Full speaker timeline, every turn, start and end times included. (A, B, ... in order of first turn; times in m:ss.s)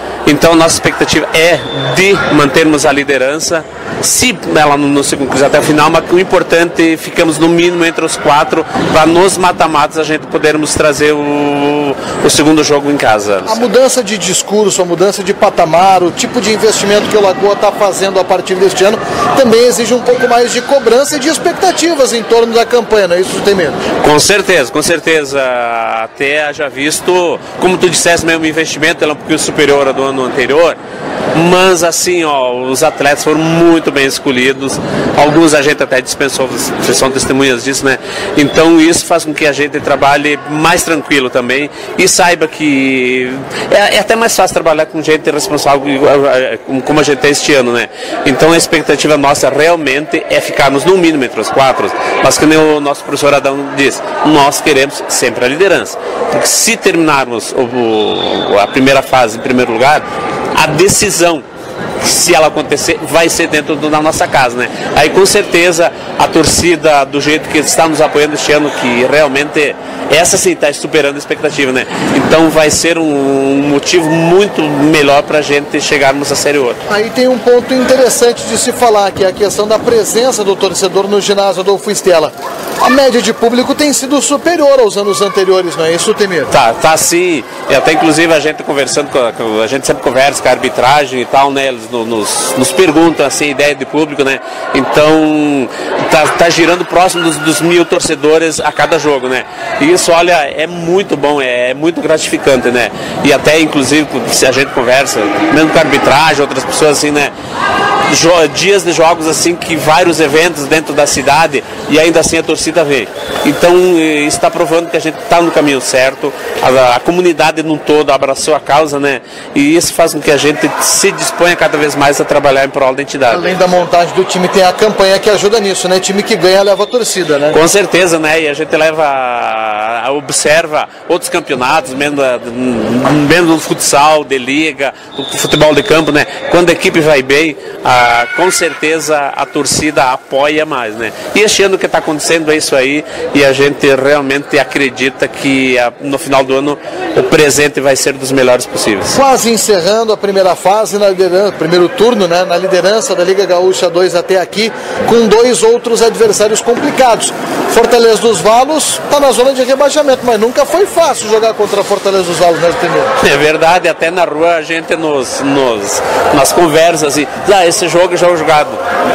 0:00.3-0:13.6 A
0:13.4-0:23.8 B
0:24.0-0:30.8 A
0:31.4-1:01.4 A
1:02.0-1:16.8 A
1:16.9-1:26.5 B
1:26.5-1:47.3 A
1:48.1-2:03.6 A
2:03.3-2:07.6 B
2:07.5-2:29.2 A
2:29.1-2:43.1 B
2:43.2-2:48.8 A